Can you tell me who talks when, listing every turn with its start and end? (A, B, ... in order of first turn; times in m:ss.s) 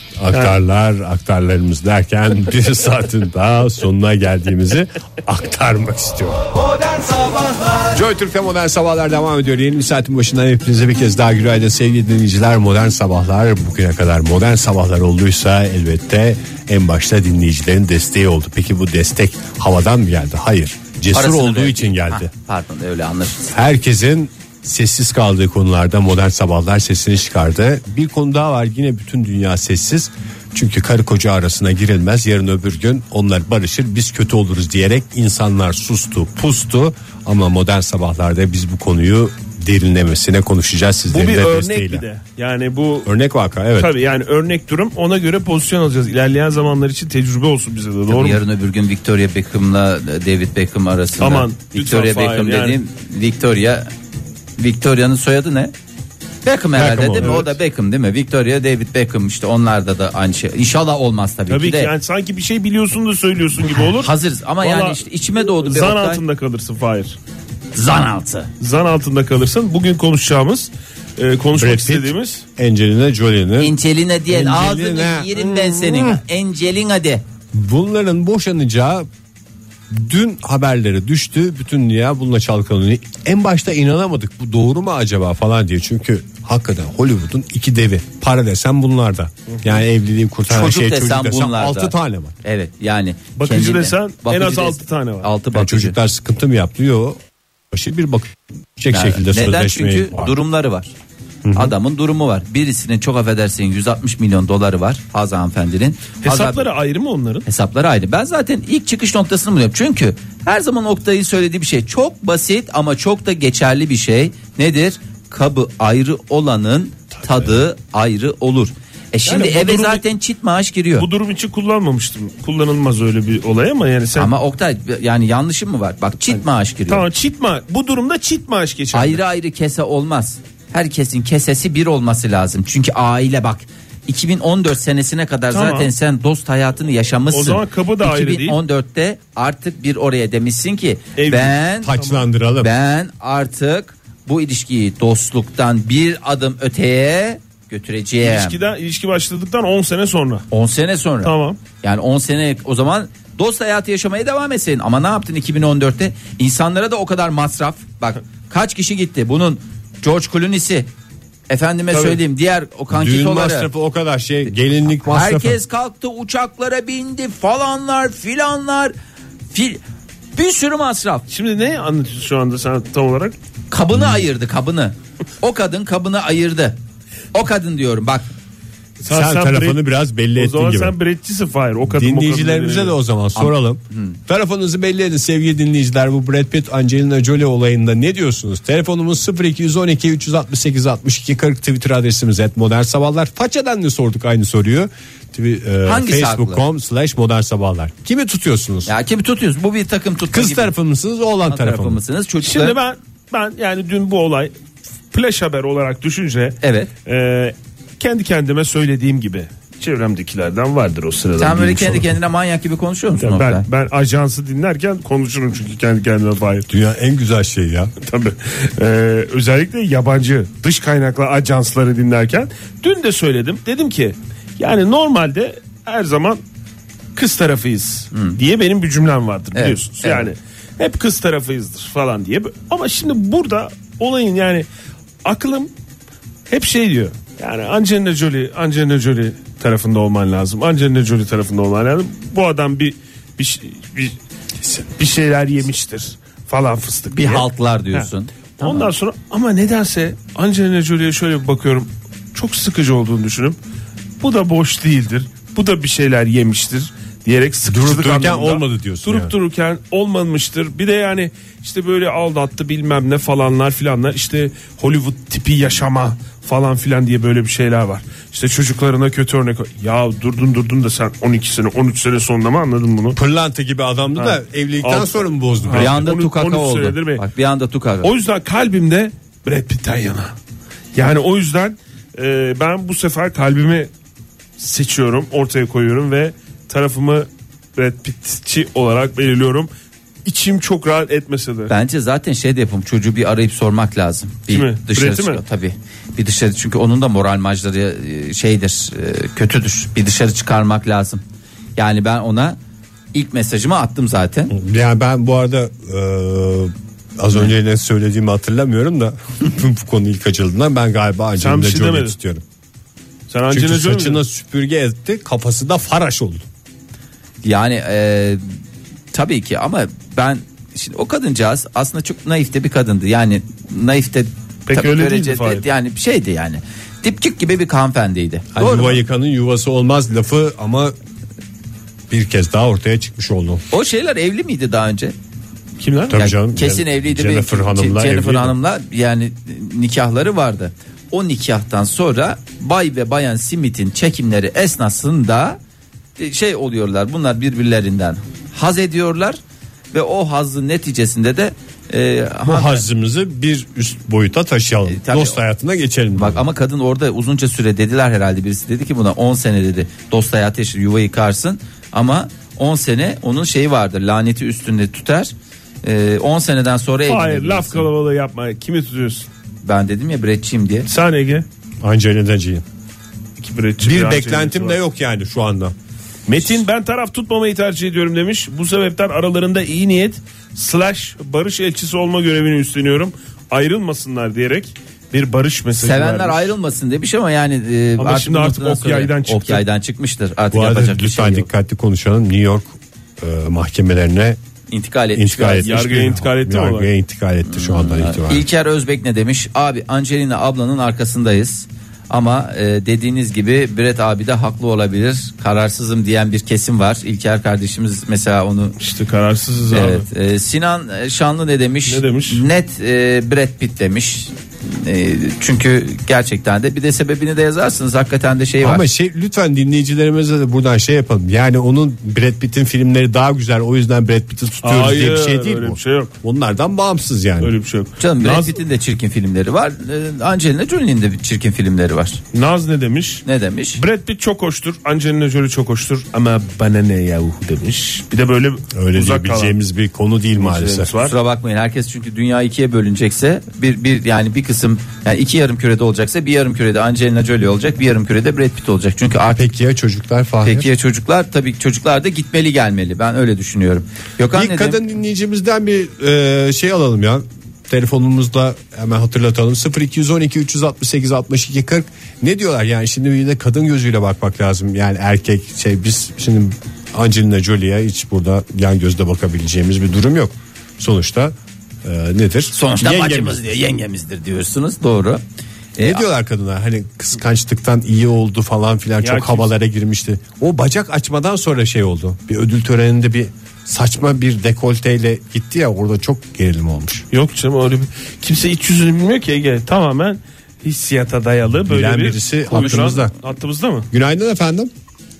0:00.2-0:06.5 A
0:00.3-0:00.6 B
0:07.9-0:22.3 A
0:21.1-0:23.5 C
0:23.5-0:42.0 A
0:41.1-0:43.1 B
0:43.0-0:43.9 A
0:43.8-0:48.4 B
0:48.1-0:53.9 C
0:51.2-0:52.8 B
0:54.6-0:55.7 C
0:56.4-1:01.9 C
0:56.7-0:57.5 A
1:01.5-1:07.2 B
1:03.9-1:06.2 C
1:07.7-1:08.5 C
1:08.6-1:12.4 B
1:11.6-1:13.7 A
1:13.6-1:17.2 C
1:14.3-1:16.2 A
1:17.5-1:19.1 A
1:19.9-1:32.3 A
1:30.5-1:36.0 C
1:33.4-1:35.3 B
1:35.5-1:37.2 A
1:37.7-1:40.3 A
1:38.9-1:40.9 C
1:41.4-1:41.7 A
1:41.5-1:46.6 C
1:46.2-1:47.4 B
1:47.4-2:01.1 C
1:59.2-2:00.0 B
2:01.0-2:04.3 B
2:04.2-2:07.0 C
2:06.9-2:09.2 B
2:08.9-2:21.9 C
2:15.5-2:15.9 B
2:17.3-2:18.6 B
2:21.2-2:22.2 B
2:21.8-2:22.7 A
2:22.6-2:28.6 C
2:28.2-2:30.4 B
2:30.5-2:40.9 C
2:31.2-2:31.6 B
2:41.5-2:43.7 C
2:41.9-2:42.2 B
2:42.9-2:45.6 A
2:45.0-2:48.9 C
2:49.5-2:49.8 C
2:50.4-2:51.2 C
2:51.3-2:53.3 B
2:53.7-2:56.8 C
2:54.0-2:54.2 A
2:57.3-2:58.3 C
2:59.0-2:59.8 B
2:59.1-3:00.9 A
3:00.4-3:03.0 B
3:01.8-3:18.9 A
3:03.4-3:04.2 C
3:15.8-3:16.6 C
3:18.8-3:20.7 C
3:20.3-3:22.0 A
3:21.5-3:22.8 C
3:22.4-3:24.5 B
3:25.1-3:32.1 B
3:26.6-3:26.9 C
3:31.4-3:33.6 C
3:33.2-3:36.7 B
3:36.7-3:37.9 A
3:38.0-3:46.4 B
3:47.1-3:54.6 B
3:49.5-3:50.3 C
3:55.2-3:55.7 B
3:56.5-4:04.2 B
4:04.8-4:13.6 B
4:07.1-4:08.9 C
4:14.2-4:33.2 B
4:17.7-4:19.3 A
4:33.1-4:36.0 A
4:34.2-4:37.2 B
4:35.7-4:38.1 C
4:38.0-4:40.3 B
4:40.9-4:43.9 B
4:44.6-4:49.7 B
4:50.2-4:51.7 B
4:51.7-5:01.2 C
4:54.5-4:55.4 B
5:01.8-5:02.6 C
5:03.1-5:04.5 C
5:04.5-5:12.4 A
5:11.4-5:12.1 B
5:13.3-5:14.2 B
5:13.5-5:16.4 A
5:17.4-5:18.4 C
5:19.1-5:29.0 C
5:24.7-5:25.6 B
5:28.5-5:30.9 A
5:32.1-5:33.6 A
5:33.7-5:35.1 C
5:35.8-5:36.1 B
5:36.1-5:38.5 A
5:36.1-5:45.6 C
5:46.2-5:49.4 C
5:49.9-5:52.8 C
5:52.4-5:56.4 A
5:54.9-5:55.4 C
5:56.2-6:07.9 C
6:07.1-6:09.3 B
6:09.6-6:10.9 C
6:10.9-6:11.4 B
6:11.8-6:12.6 A
6:13.4-6:14.8 B
6:13.8-6:15.7 A
6:16.3-6:26.5 B
6:25.8-6:31.5 C
6:28.0-6:29.6 B
6:30.5-6:34.4 A
6:34.7-6:35.7 C
6:35.1-6:38.4 A
6:35.6-6:36.9 B
6:37.4-6:48.8 C
6:48.8-6:50.0 B
6:49.7-6:58.8 C
6:51.9-6:52.4 B
6:58.6-7:07.5 A
7:04.6-7:06.1 B
7:07.4-7:08.6 B
7:08.0-7:12.2 C
7:12.3-7:13.2 B
7:13.2-7:13.8 C
7:13.8-7:19.6 B
7:18.7-7:20.9 A
7:20.4-7:21.1 B
7:21.0-7:29.5 C
7:29.3-7:30.7 A
7:30.4-7:34.8 C
7:34.3-7:53.4 A
7:52.5-7:55.2 C
7:55.8-7:56.0 C
7:55.8-8:07.0 A
7:59.0-7:59.5 B
8:07.1-8:13.9 B
8:11.7-8:13.1 A
8:13.9-8:14.7 A